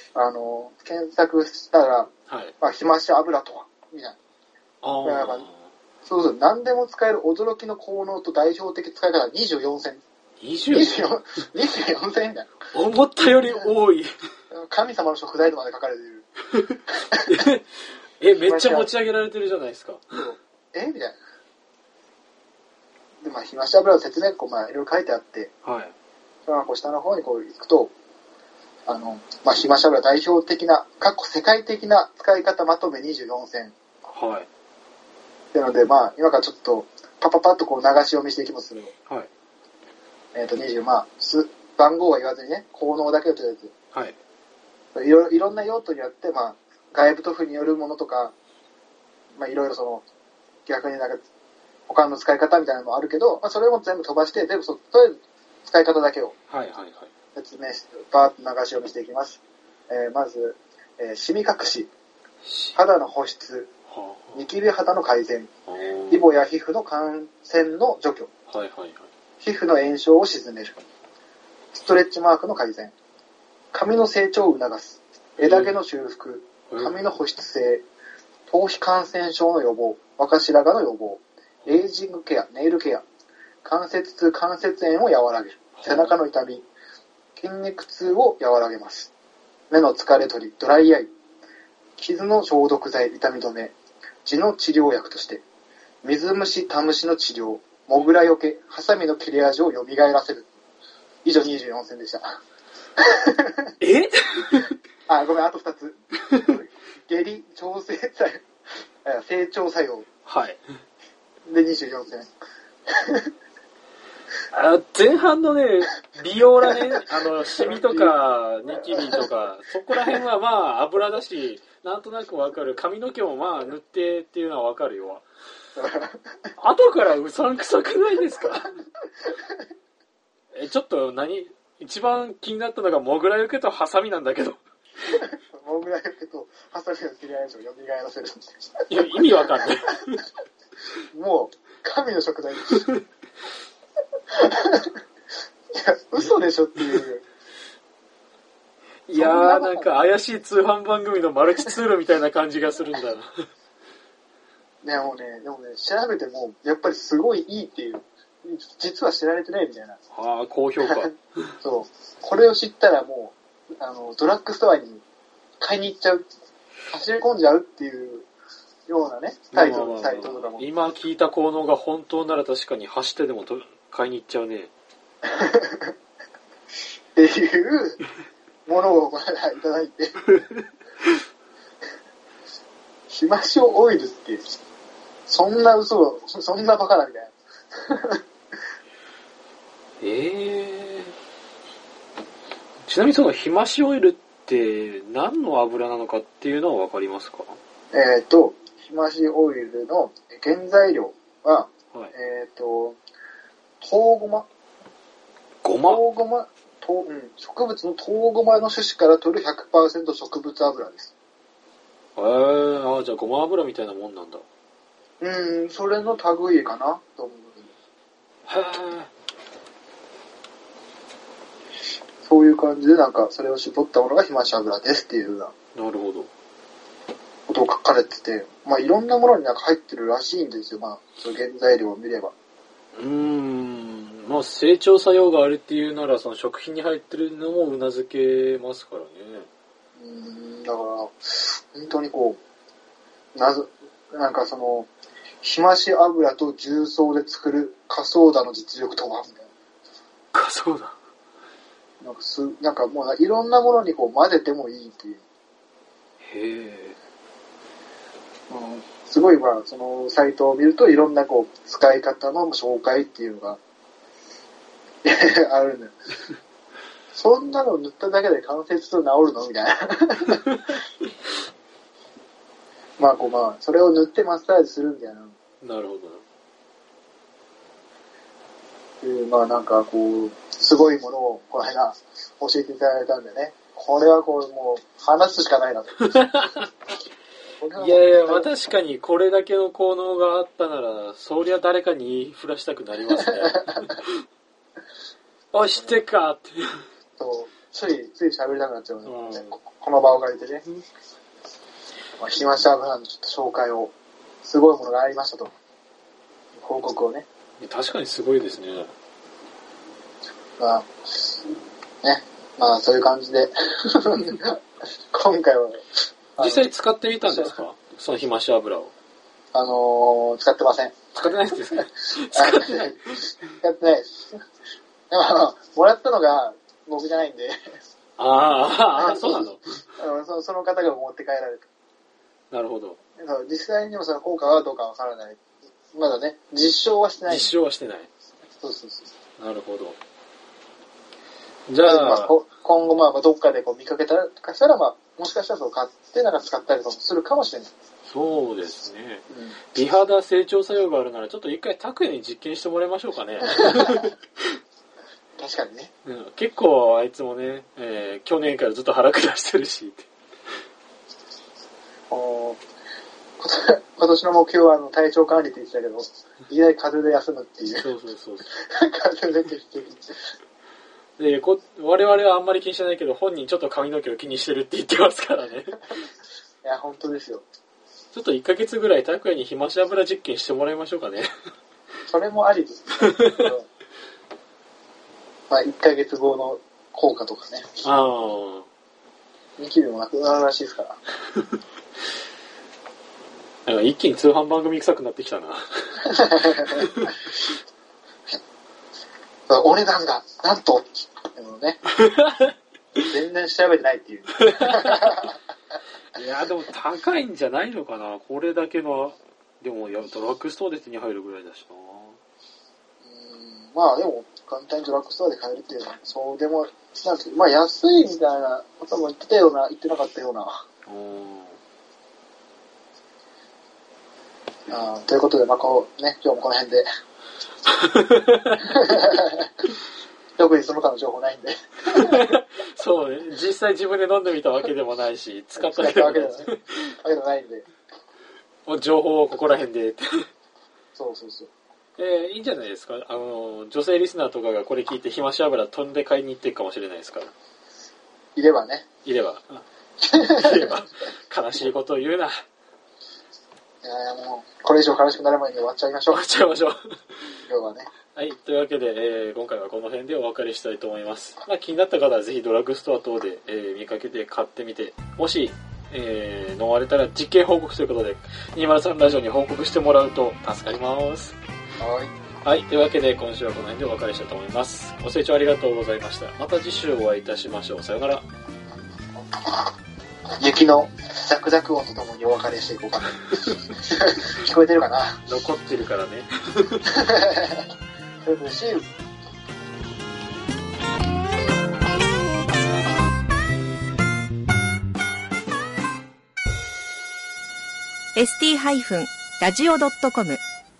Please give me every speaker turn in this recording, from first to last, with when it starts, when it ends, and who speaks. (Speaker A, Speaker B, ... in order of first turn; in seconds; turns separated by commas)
Speaker A: 0.1-4.2, Speaker B: 4.8-5.6, Speaker A: 5.0-5.5, Speaker A: 6.0-10.0, Speaker B: 10.4-11.1, Speaker A: 10.7-12.5, Speaker B: 12.7-14.1, Speaker A: 14.5-16.2, Speaker B: 16.6-17.6, Speaker B: 18.2-20.2, Speaker A: 18.4-18.9, Speaker A: 20.2-21.1, Speaker A: 23.2-25.5, Speaker B: 25.6-25.9, Speaker A: 26.4-27.9, Speaker A: 28.9-33.7, Speaker B: 34.1-34.5, Speaker A: 35.5-38.9, Speaker A: 40.3-43.7, Speaker A: 44.9-48.3, Speaker A: 49.3-50.0, Speaker A: 50.6-51.2, Speaker A: 51.9-56.3, Speaker B: 56.5-57.1, Speaker A: 57.3-61.9, Speaker B: 62.4-62.8, Speaker A: 62.7-63.7, Speaker B: 63.9-64.4, Speaker A: 64.3-65.5, Speaker B: 65.7-66.3, Speaker A: 66.1-68.3, Speaker B: 68.5-69.1, Speaker A: 69.4-70.8, Speaker A: 71.7-72.9, Speaker A: 73.7-77.8, Speaker B: 75.4-75.8, Speaker A: 78.5-83.0, Speaker A: 83.6-86.7, Speaker B: 85.8-86.1, Speaker A: 87.3-89.1, Speaker A: 89.7-91.1, Speaker A: 92.0-93.7, Speaker A: 94.2-95.4, Speaker A: 96.0-100.5, Speaker A: 101.2-102.4, Speaker A: 103.0-103.7, Speaker B: 103.8-104.7, Speaker A: 105.1-108.4, Speaker A: 109.0-110.0, Speaker B: 110.2-110.6, Speaker A: 111.4-112.3, Speaker A: 112.9-113.3, Speaker B: 114.5-125.2, Speaker A: 117.6-118.1, Speaker A: 125.8-126.5, Speaker B: 126.6-128.7, Speaker B: 130.5-134.6, Speaker A: 135.1-138.9, Speaker B: 138.9-140.2, Speaker A: 141.1-142.8, Speaker B: 142.7-143.0, Speaker A: 144.3-144.9, Speaker A: 145.7-147.2, Speaker B: 149.1-153.3, Speaker A: 149.1-150.1, Speaker A: 154.8-160.0, Speaker B: 160.1-161.2, Speaker A: 161.6-165.0, Speaker A: 165.6-166.2, Speaker A: 166.9-168.3, Speaker A: 168.9-170.7, Speaker B: 169.5-174.7, Speaker A: 175.3-175.9, Speaker A: 177.1-178.0, Speaker A: 178.7-180.3, Speaker A: 183.1-184.4, Speaker A: 185.3-188.2, Speaker B: 190.0-191.1, Speaker B: 192.8-197.6, Speaker A: 197.9-203.0, Speaker A: 203.8-204.5, Speaker B: 205.6-206.0, Speaker A: 205.8-211.1, Speaker B: 212.2-214.4, Speaker A: 215.2-217.7, Speaker B: 218.5-219.1, Speaker A: 222.2-225.5, Speaker B: 225.7-226.3, Speaker A: 227.5-232.3, Speaker B: 232.9-239.5, Speaker A: 240.0-242.4, Speaker A: 243.3-244.9, Speaker A: 245.4-249.5, Speaker B: 250.3-250.9, Speaker A: 252.0-255.2, Speaker B: 256.2-256.9, Speaker A: 258.5-263.6, Speaker A: 265.0-265.9, Speaker A: 267.1-270.7, Speaker A: 273.0-275.3, Speaker B: 275.6-276.2, Speaker A: 279.0-286.4, Speaker B: 286.1-286.7, Speaker A: 287.6-288.5, Speaker B: 287.8-294.1, Speaker A: 293.2-293.6, Speaker B: 295.5-296.8, Speaker A: 297.2-300.6, Speaker B: 299.0-299.6, Speaker A: 302.2-305.5, Speaker A: 306.6-307.2, Speaker B: 307.6-308.9, Speaker A: 310.6-311.3, Speaker A: 312.0-314.6, Speaker A: 315.1-316.7, Speaker B: 316.4-318.9, Speaker A: 317.2-317.6, Speaker A: 319.5-321.0, Speaker B: 321.1-323.2, Speaker A: 321.8-323.0, Speaker A: 323.6-324.4, Speaker A: 325.1-327.6, Speaker B: 328.2-329.6, Speaker A: 329.0-331.7, Speaker B: 332.5-333.0, Speaker A: 333.2-335.4, Speaker A: 335.9-337.5, Speaker B: 337.3-338.1, Speaker A: 338.6-339.1, Speaker B: 339.4-339.9, Speaker B: 341.7-342.3, Speaker A: 341.8-347.7, Speaker B: 348.1-349.2, Speaker A: 349.3-349.6, Speaker B: 349.7-354.1, Speaker A: 353.7-354.0, Speaker A: 355.4-355.9, Speaker B: 356.0-360.1, Speaker A: 362.1-362.6, Speaker A: 363.4-367.9, Speaker B: 367.8-368.5, Speaker A: 368.5-370.2, Speaker B: 371.2-375.8, Speaker A: 376.6-377.4, Speaker B: 378.1-381.3, Speaker A: 382.1-383.7, Speaker B: 383.1-383.4, Speaker A: 385.5-387.9, Speaker B: 387.8-388.6, Speaker A: 389.6-391.0, Speaker B: 393.6-397.2, Speaker A: 396.1-396.9, Speaker A: 399.5-401.8, Speaker B: 402.0-402.5, Speaker A: 403.0-405.4, Speaker B: 404.4-405.2, Speaker B: 406.1-412.2, Speaker A: 413.0-420.6, Speaker B: 420.9-421.6, Speaker A: 424.7-426.9, Speaker B: 427.7-428.6, Speaker A: 428.7-429.5, Speaker A: 430.4-432.2, Speaker B: 431.9-436.9, Speaker A: 435.6-437.7, Speaker B: 438.7-440.2, Speaker A: 440.9-441.5, Speaker B: 442.0-447.3, Speaker A: 448.4-448.9, Speaker B: 449.0-449.6, Speaker A: 450.0-450.7, Speaker B: 450.3-452.4, Speaker A: 453.8-456.3, Speaker B: 456.1-457.3, Speaker A: 457.4-457.9, Speaker B: 458.1-471.4, Speaker A: 471.8-472.1, Speaker B: 472.4-478.2, Speaker A: 480.4-485.2, Speaker B: 485.2-486.9, Speaker A: 486.9-487.6, Speaker A: 488.2-488.9, Speaker C: 498.1-500.4